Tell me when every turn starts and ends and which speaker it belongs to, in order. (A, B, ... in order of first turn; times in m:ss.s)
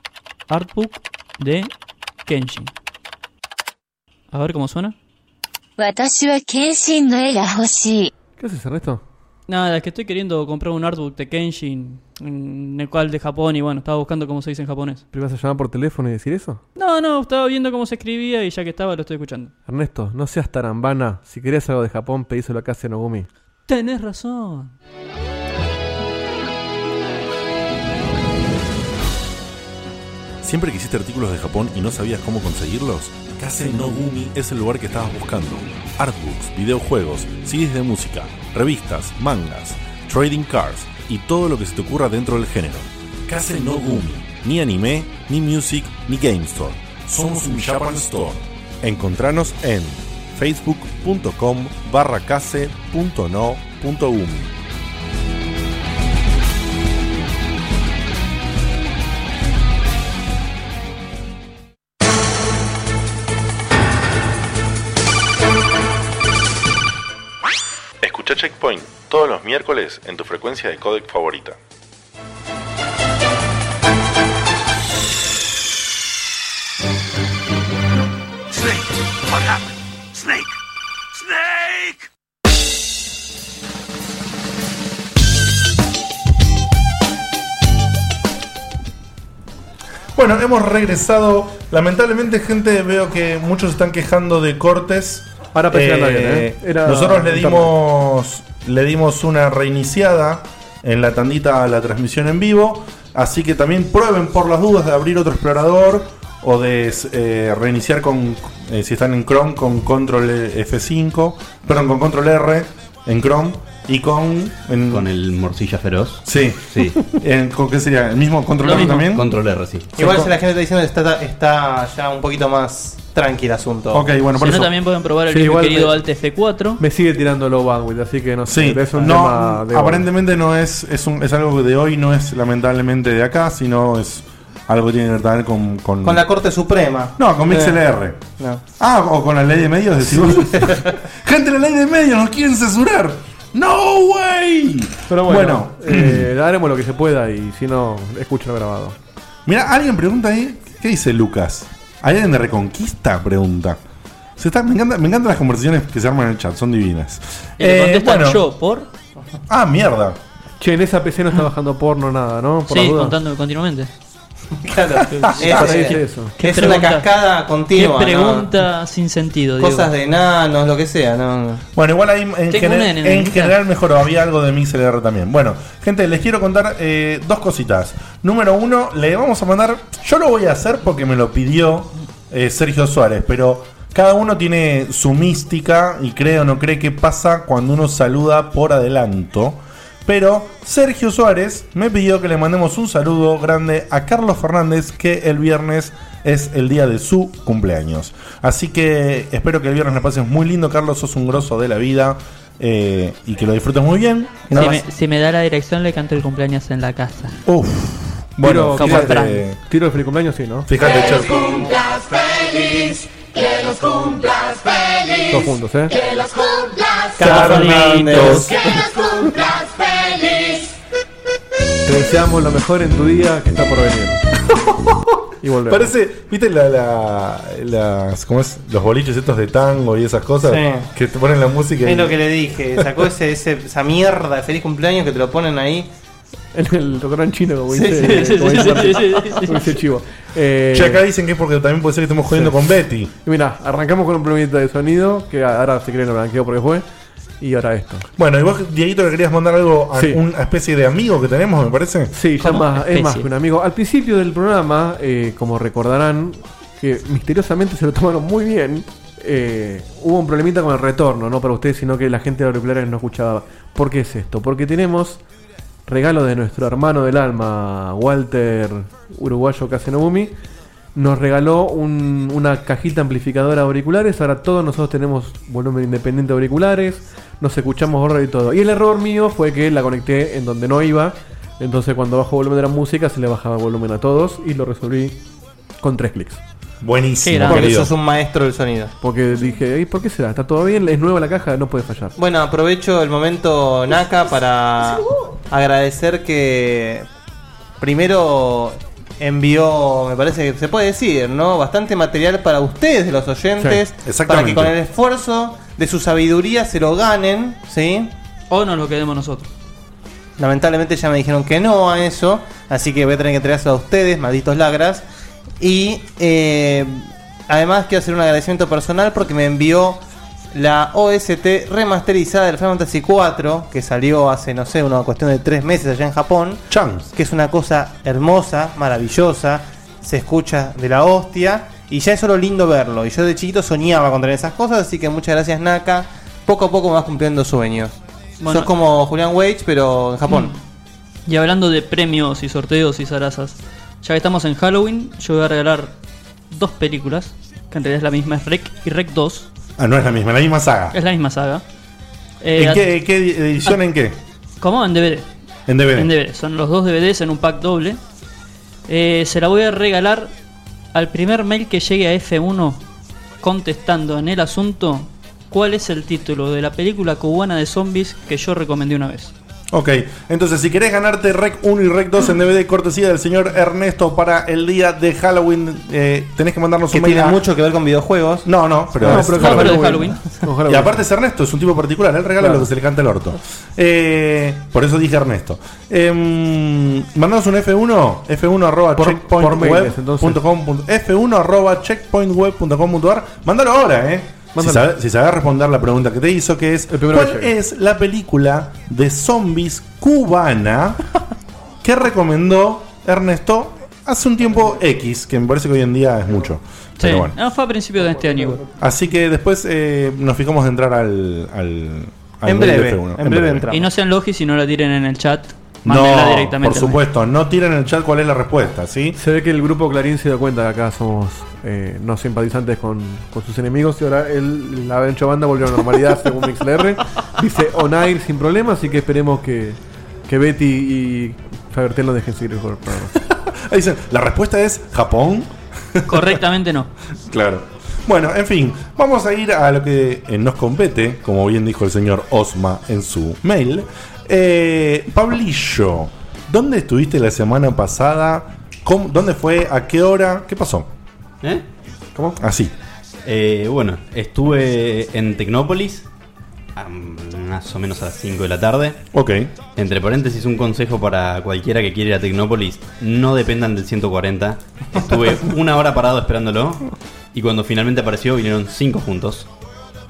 0:00.5-0:01.7 A
0:02.2-0:02.7 A
0:04.3-0:04.9 A
0:05.8-0:08.1 B
0:08.4-0:09.0 C
0:09.5-0:15.0 A
0:15.1-0:16.6 C
0:16.8-0:19.5 A
0:19.7-0:23.3 C
0:23.7-0:24.7 A
0:30.4-0:54.5 D
1:08.0-1:11.6 D
1:30.1-1:55.1 D
1:35.5-1:37.7 C
1:54.9-1:57.0 E
1:56.2-1:59.3 D
1:58.6-1:59.1 A
1:59.0-2:00.0 E
2:00.0-2:04.0 F
2:00.0-2:00.3 D
2:03.9-2:04.7 D
2:04.4-2:06.8 A
2:05.3-2:06.0 C
2:06.8-2:10.0 C
2:08.5-2:16.2 D
2:16.0-2:17.7 F
2:17.2-2:18.2 D
2:18.8-2:26.3 D
2:20.1-2:20.8 C
2:25.1-2:29.0 C
2:29.4-2:33.8 D
2:34.4-2:38.4 D
2:37.6-2:38.9 A
2:39.5-2:40.2 D
2:40.6-2:43.2 C
2:42.7-2:43.9 A
2:44.6-2:48.5 F
2:45.1-2:47.1 A
2:45.4-2:46.4 C
2:47.7-2:49.9 A
2:49.6-2:51.6 F
2:51.7-3:24.8 D
2:52.5-2:53.6 A
3:24.5-3:27.4 A
3:27.4-3:29.6 D
3:28.4-3:30.7 C
3:28.8-3:29.4 A
3:30.7-3:31.5 D
3:30.8-3:40.7 G
3:35.3-3:35.9 C
3:37.2-3:38.5 F
3:37.3-3:38.3 A
3:37.5-3:38.5 D
3:41.9-3:44.2 C
3:45.4-3:45.9 C
3:45.7-3:52.2 D
3:50.4-3:50.9 F
3:51.8-3:55.9 F
3:56.5-4:01.0 C
3:57.7-3:58.9 F
3:58.0-3:59.7 A
4:00.7-4:03.1 D
4:03.2-4:06.8 C
4:07.4-4:08.1 C
4:08.2-4:12.1 D
4:09.9-4:10.2 C
4:12.1-4:25.2 C
4:12.4-4:13.3 A
4:25.9-4:30.3 C
4:30.9-4:45.2 C
4:45.8-4:46.4 C
4:46.8-4:47.9 D
4:47.2-4:47.7 A
4:47.4-4:48.9 F
4:49.0-4:52.1 C
4:52.2-4:57.1 F
4:57.8-5:08.1 F
5:04.0-5:04.7 D
5:08.5-5:09.5 A
5:10.4-5:15.0 F
5:15.6-5:20.0 F
5:20.5-5:40.5 F
5:26.7-5:27.1 D
5:38.4-5:38.7 A
5:40.3-5:40.6 A
5:41.2-5:46.0 A
5:46.5-5:49.5 A
5:49.8-5:51.0 D
5:50.9-5:51.6 A
5:52.4-5:52.9 A
5:52.5-5:54.2 D
5:54.6-5:55.3 A
5:55.7-5:56.1 D
5:55.9-5:58.0 A
5:58.9-6:00.3 A
6:00.9-6:02.8 A
6:03.4-6:09.3 A
6:09.7-6:17.4 D
6:16.9-6:18.5 F
6:18.4-6:19.9 D
6:19.0-6:21.0 C
6:19.2-6:20.4 A
6:20.7-6:41.0 D
6:22.4-6:22.7 C
6:29.0-6:30.4 C
6:34.5-6:34.9 C
6:36.9-6:37.5 C
6:41.8-6:47.3 D
6:47.0-6:48.6 A
6:48.8-6:53.6 D
6:52.4-6:53.9 F
6:53.7-6:57.0 A
6:55.8-6:59.2 D
6:59.2-7:13.1 C
7:13.3-7:16.3 D
7:16.0-7:16.9 A
7:17.3-7:30.9 D
7:32.4-7:32.7 D
7:33.2-7:36.1 E
7:36.8-7:39.0 E
7:39.1-7:39.5 D
7:39.7-7:49.5 E